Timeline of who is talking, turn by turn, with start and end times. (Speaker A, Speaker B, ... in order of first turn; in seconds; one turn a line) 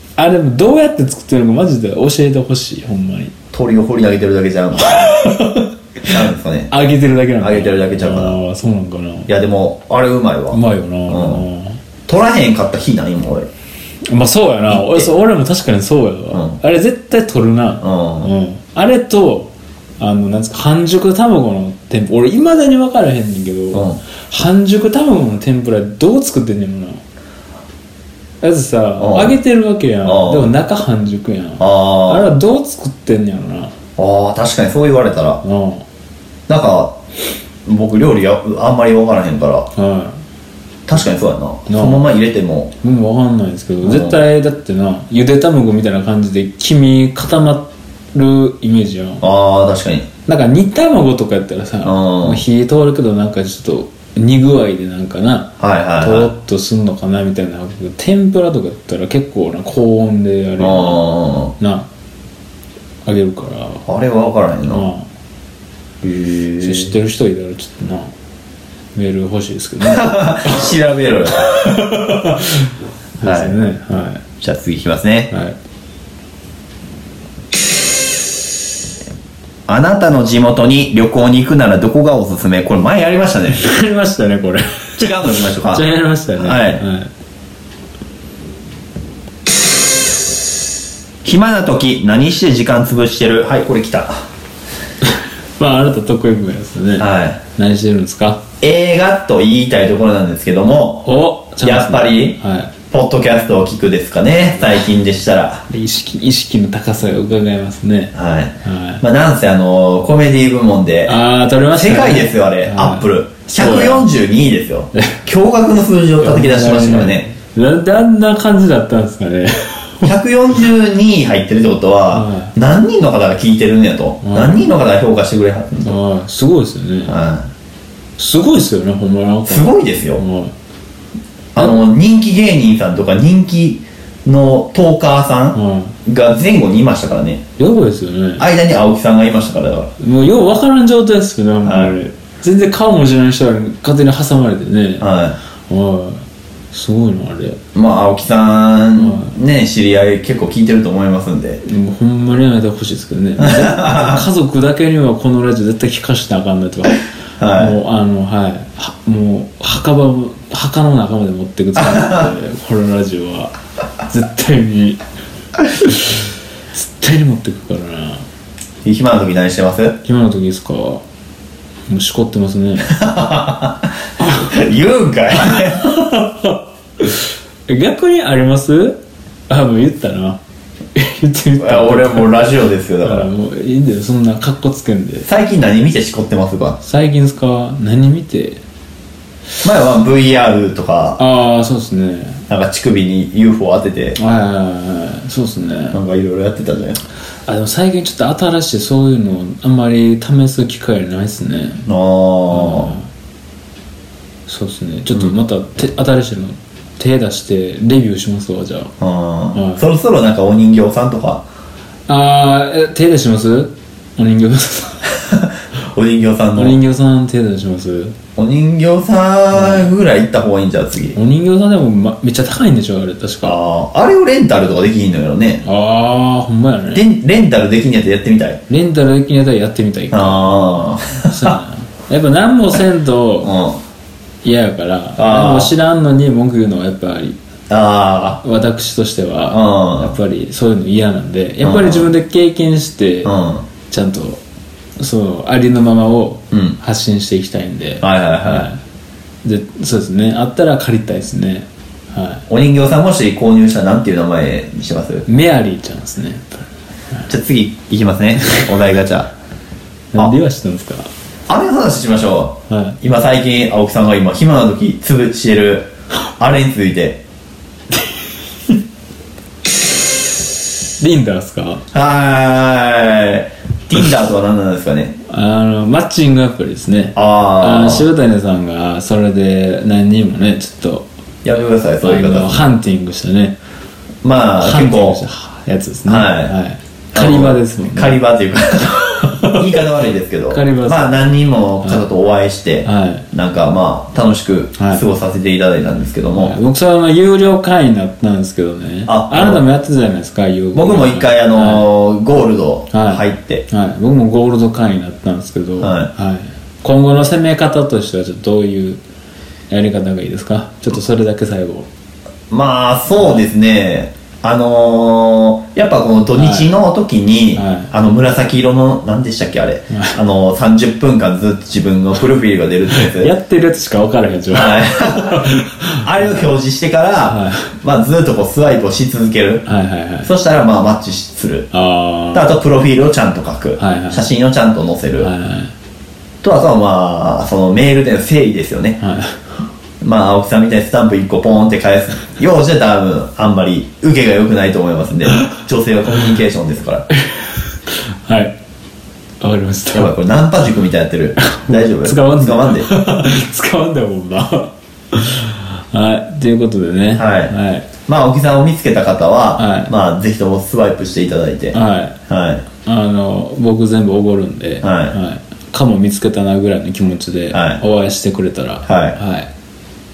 Speaker A: 0.2-3.3
Speaker B: 3.5-5.1
Speaker A: 4.8-6.1
Speaker B: 6.1-6.7
Speaker A: 6.7-9.3
Speaker B: 7.4-8.3
Speaker B: 9.3-11.4
Speaker A: 10.5-11.8
Speaker B: 12.1-13.5
Speaker A: 14.1-27.0
Speaker B: 14.7-15.1
Speaker B: 16.3-16.6
Speaker B: 17.8-18.3
Speaker B: 23.7-24.0
Speaker A: 28.4-33.7
Speaker B: 29.0-29.4
Speaker B: 30.0-30.5
Speaker B: 31.6-32.3
Speaker B: 34.0-35.4
Speaker A: 35.4-35.8
Speaker B: 36.5-37.0
Speaker B: 37.6-39.7
Speaker A: 39.7-40.2
Speaker B: 40.9-42.7
Speaker A: 41.7-42.0
Speaker A: 42.8-49.2
Speaker B: 43.8-44.2
Speaker B: 49.2-50.1
Speaker A: 50.2-61.0
Speaker B: 51.8-52.4
Speaker B: 55.6-56.3
Speaker B: 60.6-61.5
Speaker A: 61.6-61.9
Speaker A: 63.0-63.8
Speaker B: 63.9-64.9
Speaker A: 64.7-65.0
Speaker B: 66.0-66.9
Speaker A: 66.6-68.1
Speaker A: 68.9-70.7
Speaker B: 69.8-71.5
Speaker A: 71.4-74.2
Speaker B: 73.2-73.5
Speaker B: 74.4-75.3
Speaker B: 79.7-83.6
Speaker A: 83.5-87.1
Speaker B: 85.0-85.8
Speaker B: 86.3-86.8
Speaker B: 91.2-94.1
Speaker A: 95.6-98.4
Speaker B: 97.0-97.4
Speaker B: 98.6-101.1
Speaker A: 101.0-102.7
Speaker B: 101.6-102.4
Speaker B: 102.9-105.6
Speaker A: 105.7-109.0
Speaker B: 108.1-111.2
Speaker A: 111.1-114.1
Speaker B: 111.7-117.3
Speaker A: 116.2-120.1
Speaker B: 120.0-125.9
Speaker A: 122.1-122.5
Speaker A: 124.2-124.7
Speaker A: 125.8-127.2
Speaker B: 127.0-127.4
Speaker A: 128.2-130.5
Speaker B: 129.5-130.2
Speaker B: 131.5-137.4
Speaker A: 135.5-135.9
Speaker A: 137.6-138.4
Speaker B: 138.4-139.9
Speaker A: 140.0-145.1
Speaker B: 141.6-141.9
Speaker B: 145.0-145.4
Speaker A: 145.7-147.6
Speaker B: 147.7-151.6
Speaker A: 149.0-149.3
Speaker A: 151.6-157.0
Speaker B: 153.4-154.2
Speaker B: 157.4-157.8
Speaker A: 157.5-163.5
Speaker B: 161.8-162.3
Speaker A: 164.1-165.0
Speaker A: 165.8-168.2
Speaker B: 168.8-170.0
Speaker A: 170.0-171.0
Speaker A: 171.9-172.9
Speaker B: 172.9-175.9
Speaker A: 174.2-174.5
Speaker A: 175.4-179.0
Speaker A: 179.5-180.4
Speaker A: 180.9-182.5
Speaker B: 181.6-183.3
Speaker A: 183.0-185.3
Speaker B: 185.2-186.8
Speaker A: 186.8-188.6
Speaker B: 189.6-191.2
Speaker A: 191.2-192.4
Speaker B: 192.5-194.2
Speaker A: 194.2-196.0
Speaker B: 195.9-197.0
Speaker A: 197.5-201.8
Speaker B: 201.8-202.9
Speaker A: 202.5-203.1
Speaker A: 204.5-208.9
Speaker B: 209.0-211.4
Speaker A: 209.5-209.8
Speaker A: 212.1-215.2
Speaker B: 215.3-216.8
Speaker A: 216.5-218.1
Speaker B: 218.4-221.2
Speaker A: 219.5-219.9
Speaker A: 221.1-223.6
Speaker B: 223.4-225.6
Speaker A: 225.6-227.0
Speaker B: 226.9-228.6
Speaker A: 228.7-230.6
Speaker B: 230.1-231.5
Speaker A: 231.3-233.5
Speaker B: 233.4-233.8
Speaker A: 234.4-237.4
Speaker B: 235.2-235.7
Speaker B: 237.7-238.4
Speaker A: 238.4-243.3
Speaker B: 239.5-240.1
Speaker B: 241.6-242.1
Speaker B: 243.2-243.6
Speaker A: 243.9-244.4
Speaker A: 245.0-248.8
Speaker B: 246.5-246.8
Speaker B: 248.0-248.7
Speaker A: 249.4-252.4
Speaker B: 252.5-255.2
Speaker A: 255.2-257.3
Speaker B: 257.3-259.3
Speaker A: 260.1-261.1
Speaker B: 261.5-267.2
Speaker A: 262.7-263.0
Speaker A: 271.0-271.8
Speaker B: 271.9-275.1
Speaker A: 275.3-281.1
Speaker B: 277.1-278.1
Speaker B: 281.4-282.7
Speaker A: 282.0-283.6
Speaker B: 284.2-285.2
Speaker A: 284.6-288.2
Speaker B: 286.1-286.5
Speaker B: 287.1-296.6
Speaker A: 289.2-289.6
Speaker A: 290.5-291.2
Speaker A: 292.8-293.2
Speaker A: 294.8-295.0
Speaker A: 296.4-301.9
Speaker B: 299.1-299.6
Speaker B: 300.7-303.6
Speaker A: 302.9-309.0
Speaker B: 305.8-306.1
Speaker A: 309.7-311.9
Speaker B: 312.5-323.3
Speaker A: 316.4-316.7
Speaker A: 317.6-317.9
Speaker A: 322.9-326.4
Speaker B: 324.5-329.6
Speaker A: 327.3-327.7
Speaker A: 329.6-330.3
Speaker B: 330.2-331.7
Speaker A: 331.7-332.5
Speaker B: 332.3-335.3
Speaker A: 333.8-334.2
Speaker A: 335.2-335.7
Speaker B: 336.4-339.0
Speaker A: 339.0-339.4
Speaker B: 340.0-347.0
Speaker A: 347.1-347.6
Speaker A: 348.2-348.6
Speaker A: 349.4-350.1
Speaker B: 349.9-352.9
Speaker A: 351.4-357.9
Speaker B: 357.1-357.5
Speaker B: 358.1-362.6
Speaker A: 359.6-359.9
Speaker A: 361.7-362.2
Speaker A: 362.8-369.5
Speaker B: 364.8-365.1
Speaker B: 367.5-367.8
Speaker B: 368.9-369.2